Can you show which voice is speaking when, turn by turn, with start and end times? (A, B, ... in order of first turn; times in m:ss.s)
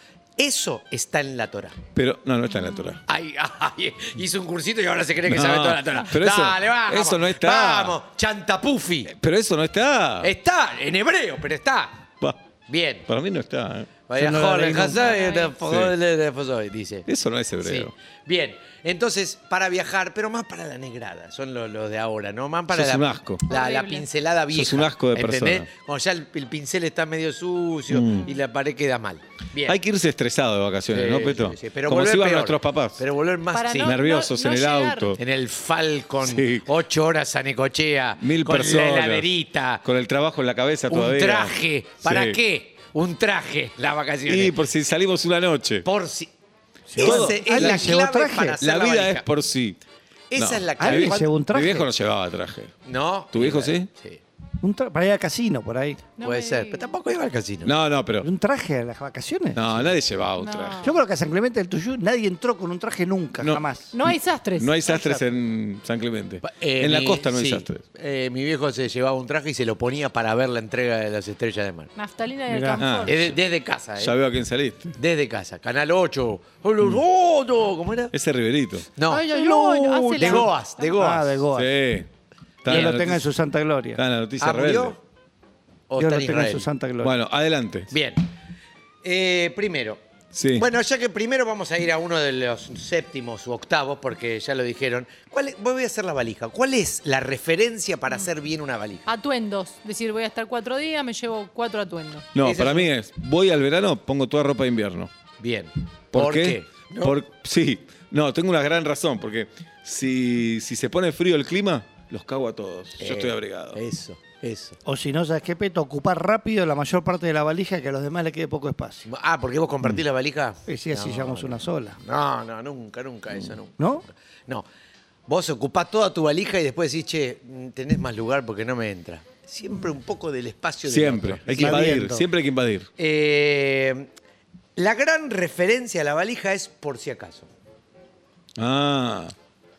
0:00.4-0:01.8 A
0:01.9-0:03.0 B
0:03.0-0:09.1 A
0:05.3-0:08.0 B
0:09.1-0:10.3 B
0:10.2-0:12.0 A
0:12.7-0:13.1 A
0:13.1-0:13.9 B
0:14.1-0:17.1 A
0:14.1-0:15.1 C
0:14.9-0:15.5 D
0:15.6-0:15.9 B
0:17.1-0:17.9 B
0:17.6-0:29.8 A
0:22.7-0:23.4 B
0:23.5-0:24.0 D
0:24.5-0:25.7 B
0:27.9-0:28.3 B
0:29.6-0:33.0 B
0:30.9-0:34.0 A
0:33.5-0:35.2 D
0:33.8-0:35.2 B
0:35.2-0:39.8 A
0:36.2-0:36.6 B
0:38.2-0:39.3 B
0:39.8-0:42.4 B
0:40.9-0:44.6 A
0:44.3-0:45.8 B
0:45.8-0:46.3 A
0:46.9-0:48.6 C
0:46.9-0:49.2 A
0:47.0-0:48.0 B
0:48.6-0:49.8 B
0:50.3-0:51.3 A
0:50.4-0:52.7 B
0:50.8-0:51.9 C
0:52.8-0:54.2 A
0:53.3-0:53.9 B
0:54.6-0:56.0 C
0:56.2-0:56.9 D
0:56.2-0:57.7 A
0:57.6-0:58.3 B
0:58.2-0:59.7 C
0:59.5-1:00.8 B
1:00.4-1:01.0 D
1:00.8-1:03.9 C
1:03.4-1:07.8 B
1:03.9-1:05.2 D
1:04.9-1:05.2 C
1:06.4-1:11.9 A
1:12.0-1:13.3 D
1:12.5-1:12.8 C
1:12.8-1:13.4 B
1:13.0-1:14.1 A
1:14.0-1:14.9 B
1:15.0-1:18.1 A
1:18.1-1:18.9 B
1:19.0-1:19.4 A
1:19.1-1:20.9 D
1:19.3-1:21.7 C
1:20.1-1:21.4 A
1:21.5-1:22.1 B
1:22.6-1:23.2 B
1:22.7-1:24.0 C
1:22.7-1:23.0 A
1:24.0-1:25.0 B
1:24.4-1:25.0 A
1:25.9-1:26.7 A
1:26.0-1:27.2 C
1:27.0-1:27.9 B
1:27.9-1:28.3 A
1:29.0-1:30.0 A
1:30.3-1:30.6 B
1:30.5-1:39.1 A
1:39.0-1:42.3 D
1:42.3-1:45.1 B
1:42.4-1:42.9 A
1:45.4-1:47.2 A
1:46.1-1:53.8 B
1:53.0-1:54.8 A
1:54.8-1:59.0 C
1:59.0-2:03.9 A
2:00.7-2:02.0 C
2:03.8-2:04.0 C
2:05.3-2:11.9 A
2:10.8-2:12.9 B
2:11.5-2:12.2 C
2:13.0-2:14.1 A
2:14.8-2:17.5 A
2:18.6-2:19.3 B